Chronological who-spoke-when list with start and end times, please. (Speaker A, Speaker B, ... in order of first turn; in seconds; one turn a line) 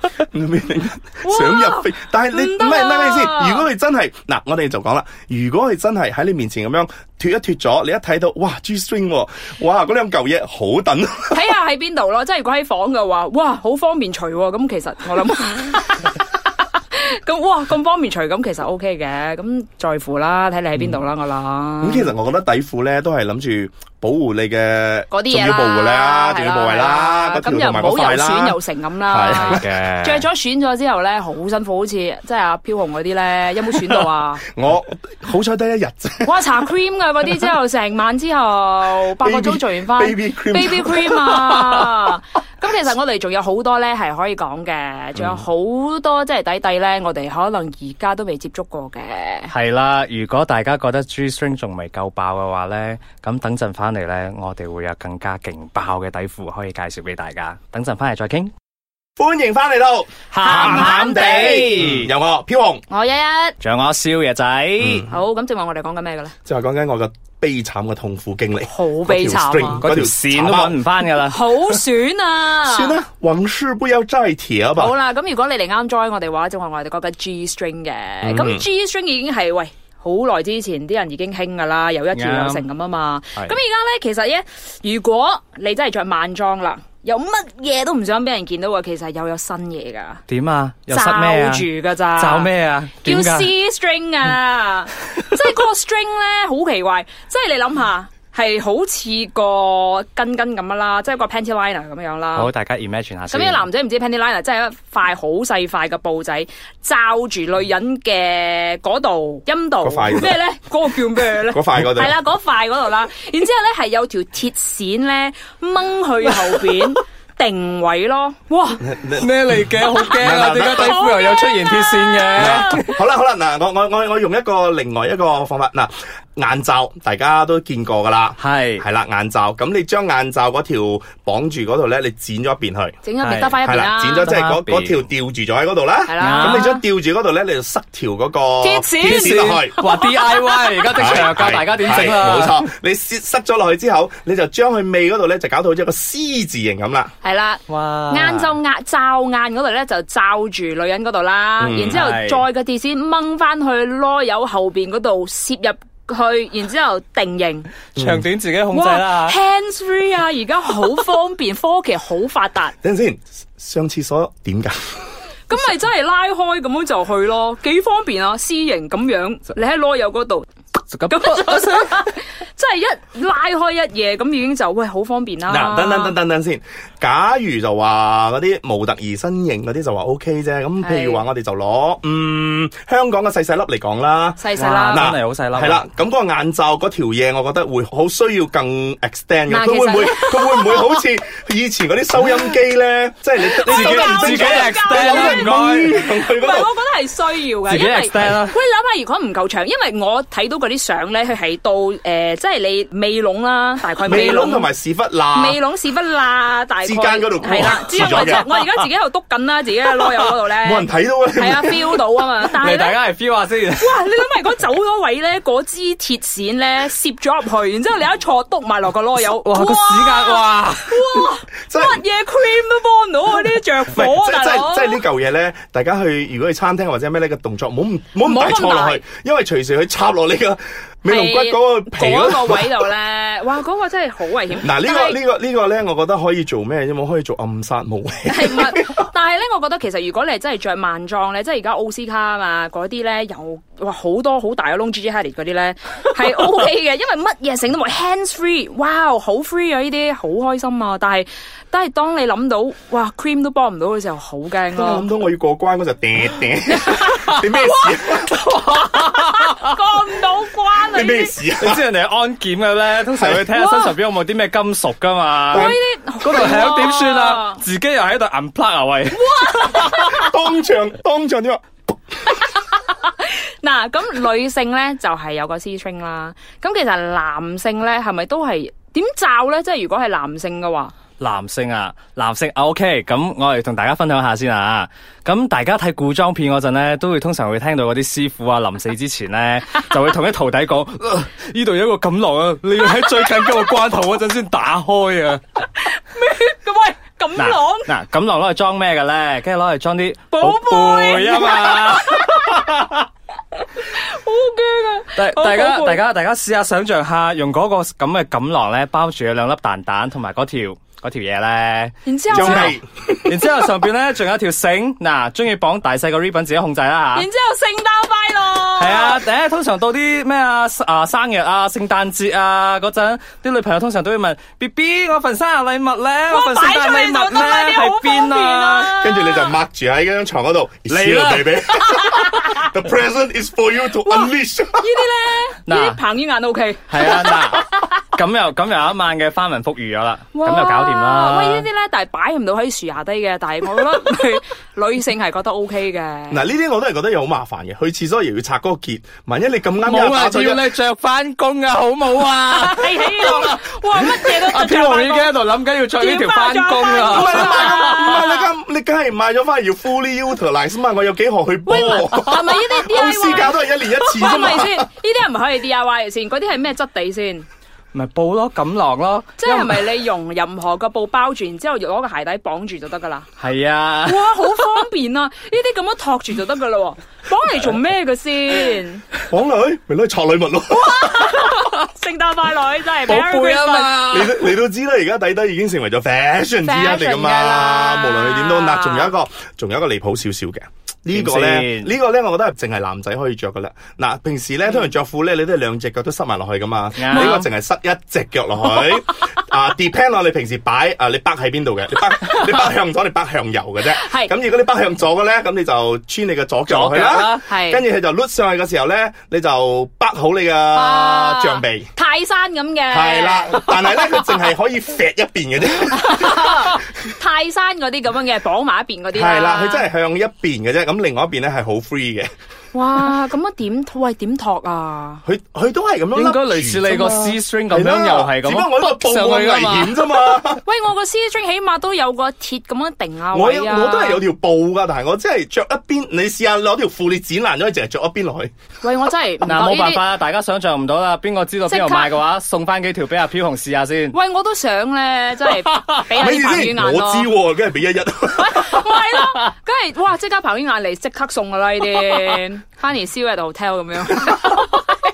Speaker A: 0.2-11.4
Speaker B: 1.2-3.7
Speaker B: 11.3-16.2
Speaker B: 16.9-22.1
Speaker A: 21.8-29.6
Speaker B: 25.1-34.4
Speaker C: 29.3-30.2
Speaker A: 34.5-36.4
Speaker B: 36.2-49.5
Speaker A: 39.2-42.0
Speaker C: 49.5-58.5
Speaker A: 59.2-62.8
Speaker C: 60.3-62.1
Speaker B: 60.4-61.7
Speaker B: 62.9-63.5
Speaker C: 63.6-65.1
Speaker B: 65.0-66.3
Speaker A: 66.5-70.8
Speaker B: 68.7-69.8
Speaker C: 69.8-71.4
Speaker B: 71.3-73.0
Speaker A: 72.6-74.9
Speaker B: 74.8-90.2
Speaker A: 78.2-78.7
Speaker C: 82.1-82.7
Speaker C: 90.3-93.5
Speaker B: 90.9-92.5
Speaker B: 93.0-102.5
Speaker C: 102.4-103.6
Speaker B: 103.3-118.8
Speaker A: 109.8-110.4
Speaker A: 111.5-112.2
Speaker A: 118.8-121.1
Speaker C: 119.2-123.0
Speaker B: 120.0-122.8
Speaker A: 122.4-133.0
Speaker C: 128.4-128.8
Speaker B: 133.0-134.3
Speaker C: 133.2-133.6
Speaker A: 133.6-139.8
Speaker C: 134.2-135.0
Speaker B: 136.1-136.8
Speaker C: 136.2-136.8
Speaker B: 138.6-141.3
Speaker C: 139.0-142.7
Speaker A: 140.9-147.1
Speaker B: 147.2-157.7
Speaker C: 147.7-148.5
Speaker A: 151.6-152.0
Speaker C: 151.9-152.4
Speaker A: 158.0-158.3
Speaker C: 158.0-159.4
Speaker B: 158.7-162.8
Speaker A: 162.8-164.8
Speaker B: 165.5-170.5
Speaker C: 170.9-171.9
Speaker B: 171.1-176.2
Speaker A: 175.5-196.7
Speaker B: 180.8-181.2
Speaker B: 184.4-185.1
Speaker C: 184.6-185.8
Speaker B: 189.5-191.0
Speaker C: 193.6-195.9
Speaker B: 193.7-204.7
Speaker C: 197.7-198.6
Speaker A: 204.0-205.6
Speaker B: 205.3-213.0
Speaker A: 206.8-208.4
Speaker C: 207.9-208.6
Speaker A: 210.6-211.9
Speaker C: 212.5-214.0
Speaker B: 213.8-225.0
Speaker C: 219.2-221.3
Speaker A: 221.7-222.0
Speaker A: 223.9-232.8
Speaker B: 228.2-229.0
Speaker B: 231.1-235.2
Speaker A: 234.6-239.1
Speaker B: 238.3-255.1
Speaker A: 254.7-258.4
Speaker B: 256.8-257.2
Speaker C: 257.1-257.4
Speaker C: 258.2-259.7
Speaker B: 258.7-261.4
Speaker A: 260.9-261.8
Speaker C: 261.6-270.0
Speaker A: 263.2-263.5
Speaker B: 263.5-263.9
Speaker B: 265.5-267.6
Speaker A: 265.5-265.8
Speaker B: 269.1-270.3
Speaker A: 269.7-271.6
Speaker B: 272.3-280.9
Speaker C: 281.2-295.4
Speaker B: 295.8-297.9
Speaker C: 297.4-303.1
Speaker B: 300.3-302.6
Speaker B: 303.8-306.0
Speaker C: 305.2-317.3
Speaker B: 312.1-312.7
Speaker A: 312.3-313.4
Speaker B: 317.1-319.2
Speaker C: 318.8-329.0
Speaker B: 326.3-329.5
Speaker A: 329.0-334.9
Speaker C: 330.9-332.4
Speaker B: 334.8-337.6
Speaker C: 335.7-336.0
Speaker C: 336.9-341.7
Speaker B: 340.3-346.4
Speaker A: 346.3-350.7
Speaker C: 349.8-358.3
Speaker B: 352.5-355.3
Speaker B: 355.9-358.5
Speaker A: 357.1-364.9
Speaker B: 361.7-367.4
Speaker C: 367.9-369.9
Speaker B: 369.4-373.3
Speaker C: 373.4-374.6
Speaker B: 374.1-379.0
Speaker A: 379.3-381.4
Speaker B: 380.8-384.1
Speaker C: 383.1-384.6
Speaker A: 384.1-411.9
Speaker B: 386.6-389.1
Speaker C: 391.1-391.9
Speaker C: 397.0-397.4
Speaker B: 397.1-397.4
Speaker B: 403.9-404.3
Speaker C: 406.7-407.4
Speaker B: 407.5-407.8
Speaker B: 410.7-414.3
Speaker A: 412.9-416.8
Speaker B: 415.9-419.9
Speaker A: 419.1-422.3
Speaker B: 422.7-425.2
Speaker A: 425.2-430.6
Speaker C: 426.1-430.1
Speaker B: 430.6-434.2
Speaker A: 433.3-438.5
Speaker B: 438.8-440.0
Speaker C: 439.4-444.2
Speaker B: 441.7-442.1
Speaker B: 444.1-447.3
Speaker C: 445.5-446.0
Speaker A: 446.1-448.8
Speaker B: 448.4-454.9
Speaker A: 454.2-454.6